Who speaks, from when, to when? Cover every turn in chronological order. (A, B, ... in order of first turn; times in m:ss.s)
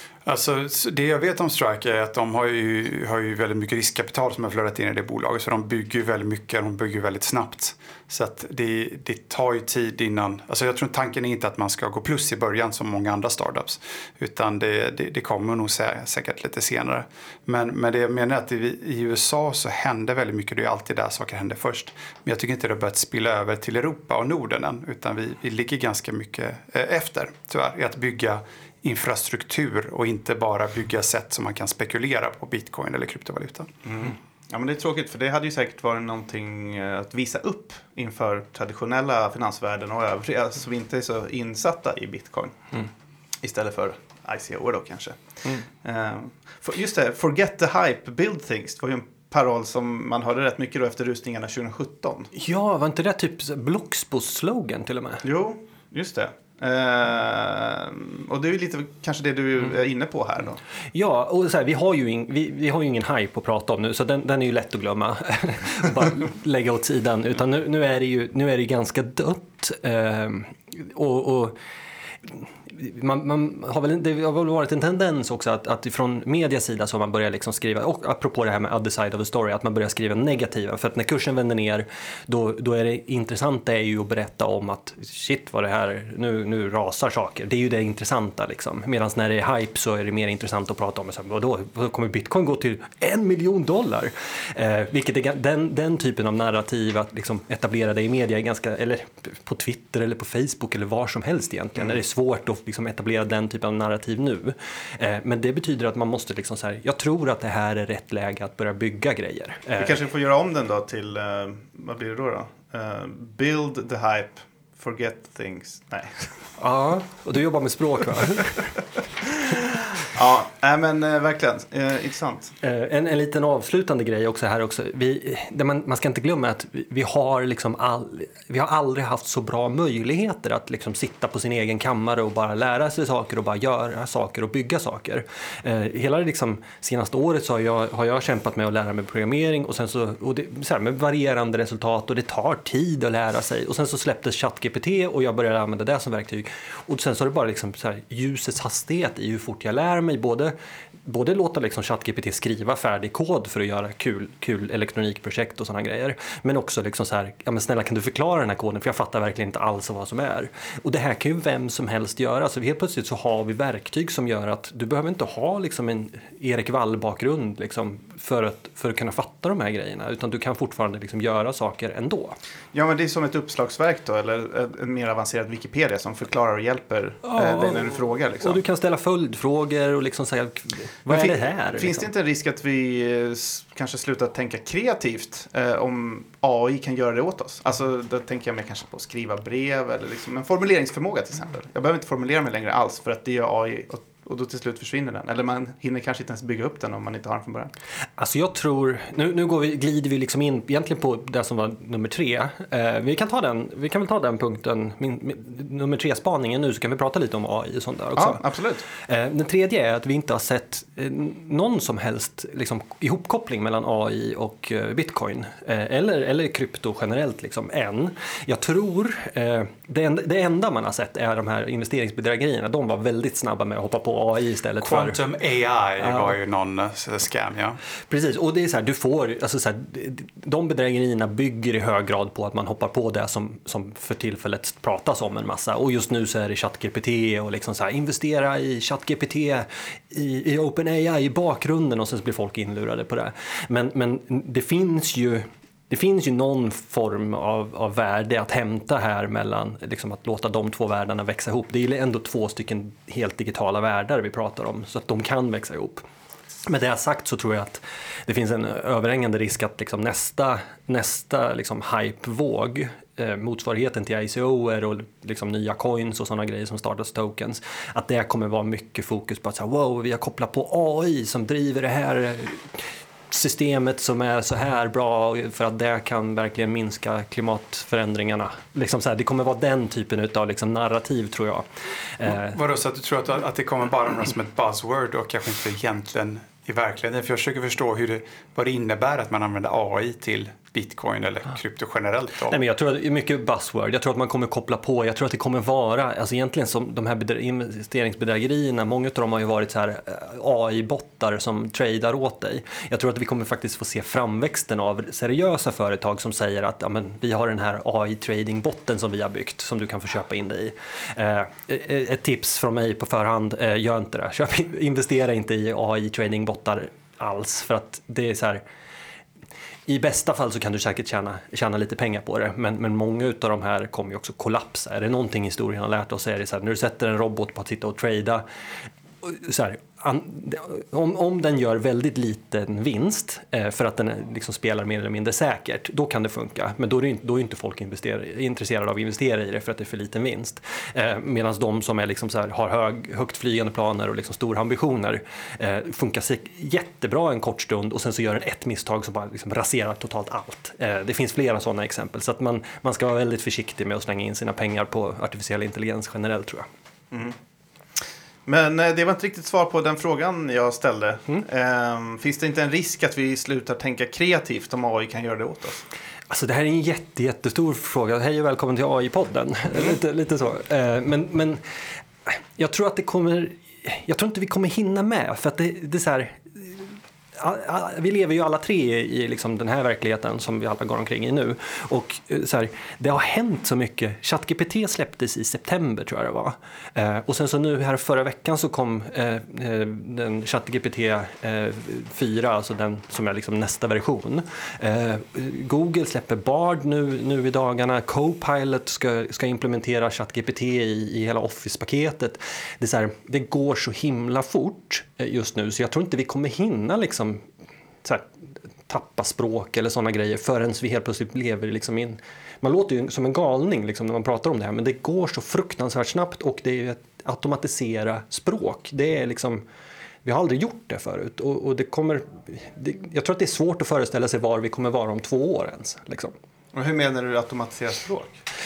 0:00.2-0:33.7 A
0:33.8-0:42.8 B
0:43.4-0:52.3 B
0:52.3-0:55.2 C
0:55.2-1:00.6 B
1:00.9-1:11.6 C
1:12.2-1:50.0 C
1:49.8-1:56.3 B
1:56.6-1:58.8 C
2:00.1-2:02.6 B
2:02.6-2:30.5 C
2:31.0-2:52.4 C
2:52.7-2:58.6 B
2:57.2-3:02.0 C
3:01.1-3:17.7 B
3:18.2-3:28.4 C
3:28.2-3:28.8 B
3:28.9-3:45.2 C
3:44.8-3:47.8 A
3:46.0-3:46.3 C
3:48.1-4:16.0 C
4:16.6-4:42.6 C
4:42.3-4:52.6 A
4:52.5-5:18.6 C
5:19.9-5:28.4 C
5:29.2-5:56.7 C
5:57.1-5:57.4 B
5:58.4-6:05.8 B
6:06.3-6:11.6 C
6:12.2-6:47.4 C
6:48.9-6:59.6 C
7:00.2-7:06.3 C
7:06.7-7:08.4 B